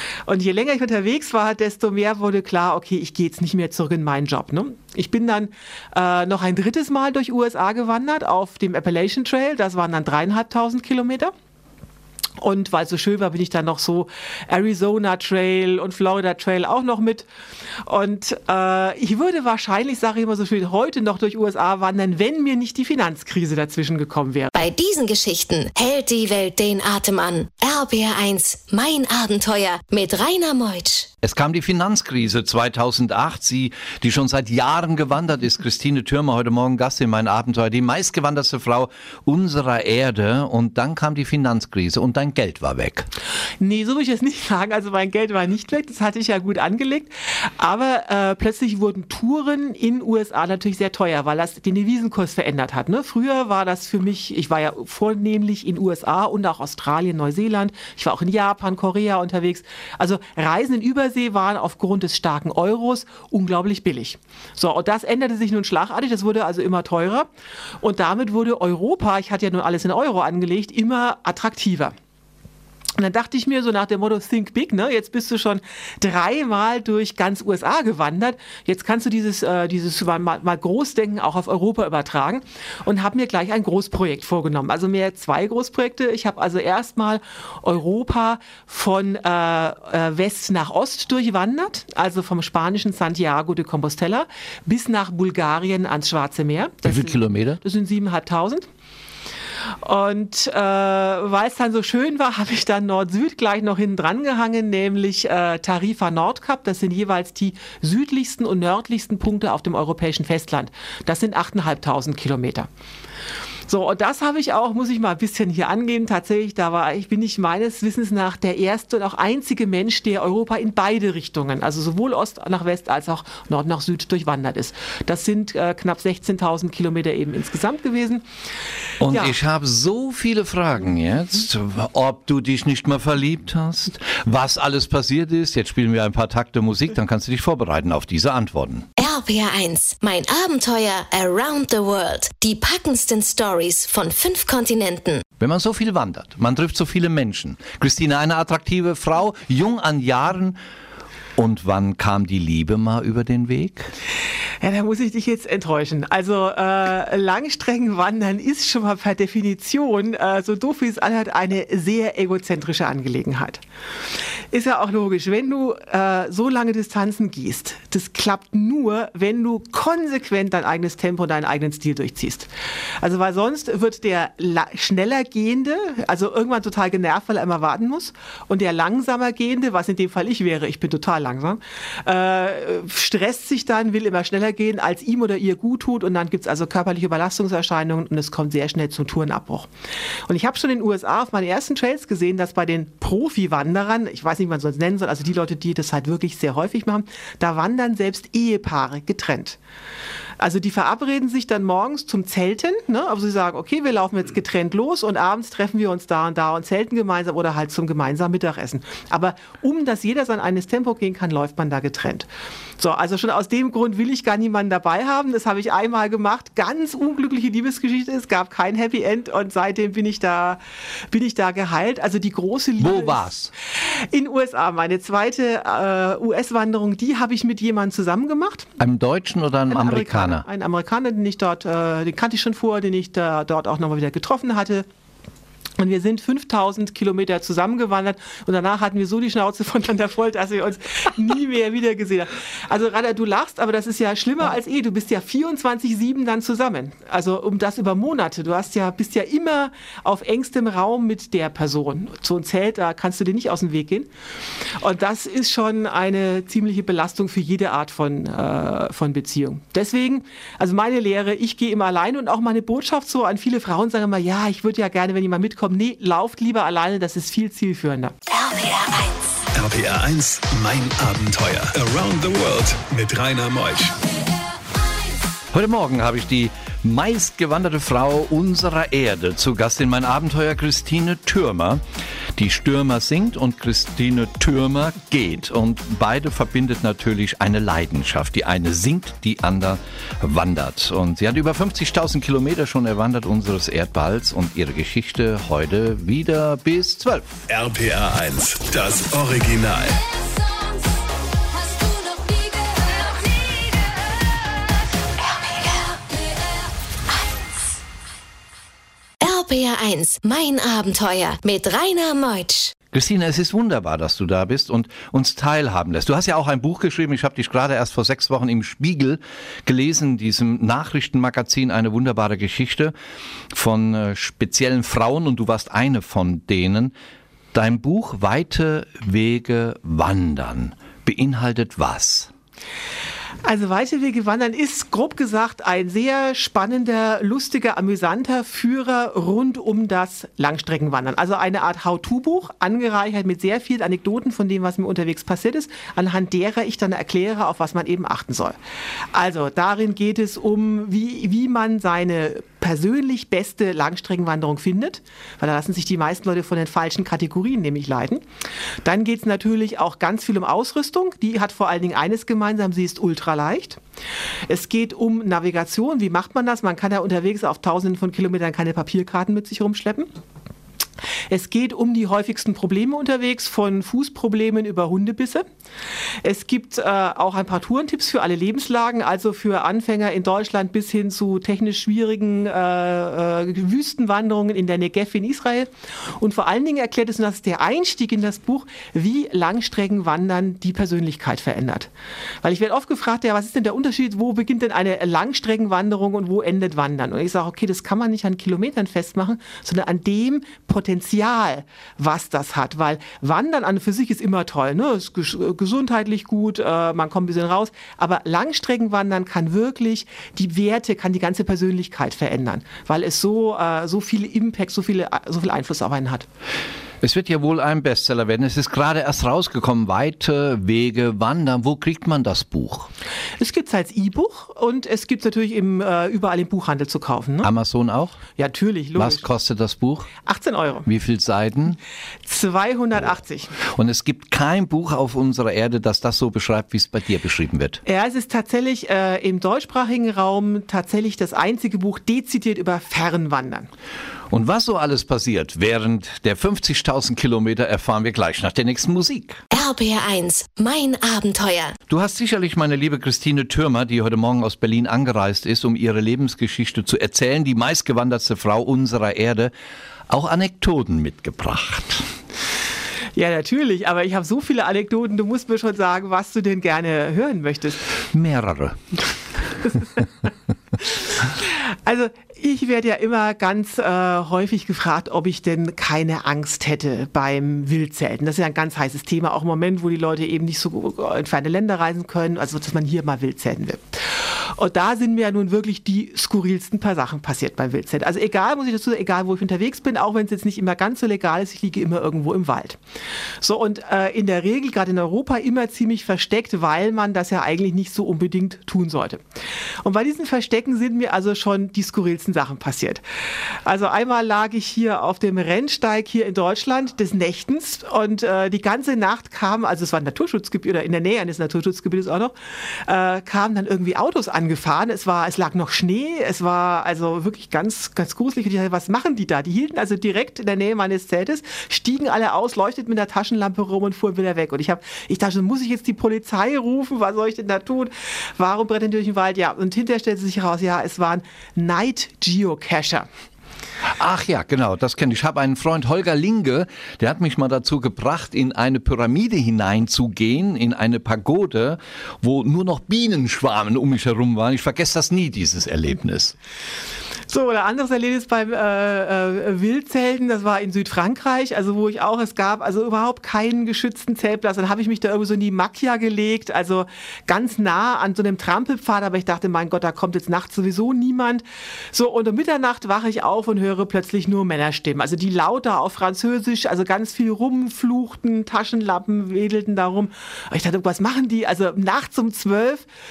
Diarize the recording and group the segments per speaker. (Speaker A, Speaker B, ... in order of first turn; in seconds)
Speaker A: 0.3-11.3, 12.4-17.3, 17.9-24.6, 43.6-67.3, 67.8-71.9, 73.0-98.7, 99.8-112.7, 113.7-128.2, 129.1-129.4, 154.6-163.6, 164.5-189.7, 190.3-199.6, 200.4-212.3, 212.8-228.7, 229.7-234.9, 235.8-254.1, 254.8-268.1, 333.4-348.6, 349.1-358.2, 358.8-363.8, 364.5-370.1, 371.3-375.4, 376.2-391.9, 392.4-416.3, 423.4-427.5, 428.4-429.3, 430.2-430.9, 432.3-433.6, 437.9-443.7, 463.1-467.9, 469.6-470.1, 470.8-484.0, 484.6-492.8, 493.4-499.2, 499.8-503.0, 503.6-533.1, 547.3-572.9
Speaker B: 24.6-31.1, 138.9-145.2, 268.3-269.1, 301.6-303.6, 305.2-306.1, 309.2-312.7, 449.5-451.8
Speaker C: 31.2-43.1, 96.8-97.6, 129.0-138.9, 145.4-150.6, 151.4-153.9, 222.8-223.5, 228.8-230.5, 275.5-281.8, 282.4-297.3, 312.9-322.9, 323.5-326.9, 327.5-332.3, 417.0-422.9, 427.4-428.2, 428.9-430.1, 430.9-431.8, 433.7-437.8, 444.3-449.4, 451.9-459.5, 460.1-462.1, 468.1-468.8, 534.0-546.3
Speaker D: 269.6-274.0, 297.5-300.0